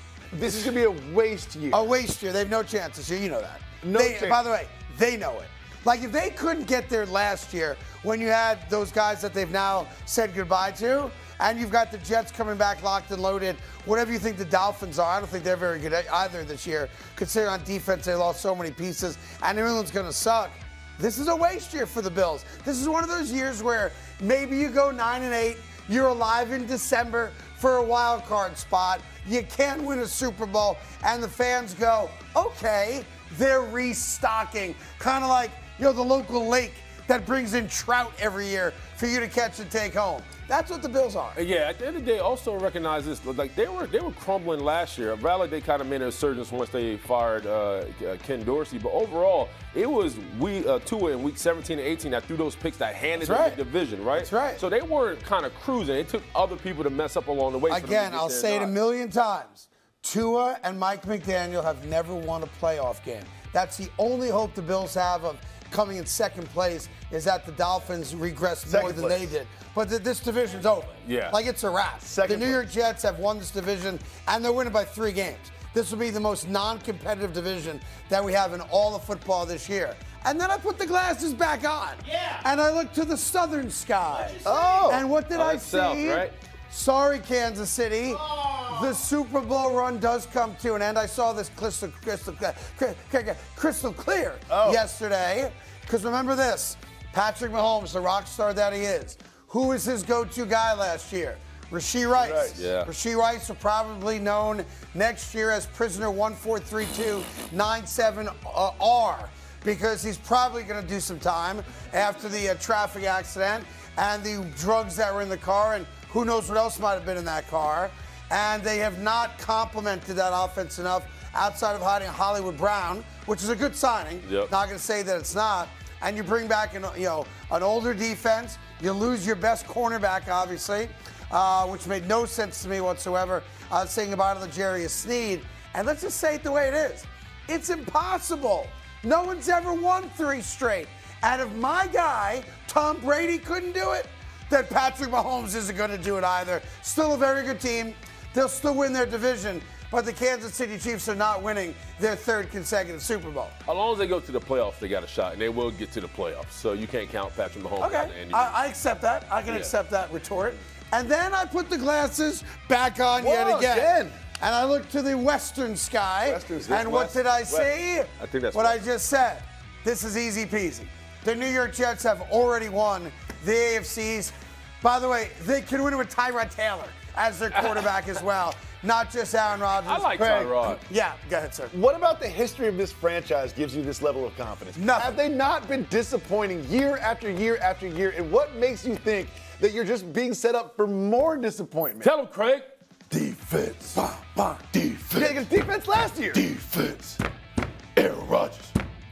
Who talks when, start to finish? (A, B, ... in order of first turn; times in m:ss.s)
0:00.3-0:01.8 A
0:01.7-0:41.4 B
0:03.8-0:04.4 A
0:41.4-0:58.7 C
0:53.2-0:53.6 B
0:54.1-0:54.6 B
0:57.7-2:33.5 B
1:08.7-1:09.4 A
1:11.0-1:11.4 C
1:12.1-1:12.6 A
1:24.2-1:26.3 C
1:24.4-1:25.1 A
1:28.4-1:28.7 C
1:34.5-1:34.8 A
1:42.2-1:42.6 A
1:42.6-1:42.9 C
2:04.2-2:04.5 C
2:33.7-2:38.5 C
2:37.8-3:00.2 B
2:39.5-2:39.7 C
2:43.2-2:44.2 A
2:46.2-2:47.7 A
2:48.2-2:48.8 C
2:59.8-3:00.8 C
3:00.2-3:00.8 A
3:00.8-3:01.7 B
3:01.7-3:12.1 A
3:04.8-3:05.2 B
3:12.0-3:14.0 C
3:14.0-3:14.7 B
3:14.8-3:15.4 C
3:15.1-3:16.4 A
3:16.4-3:17.2 C
3:18.0-3:18.7 C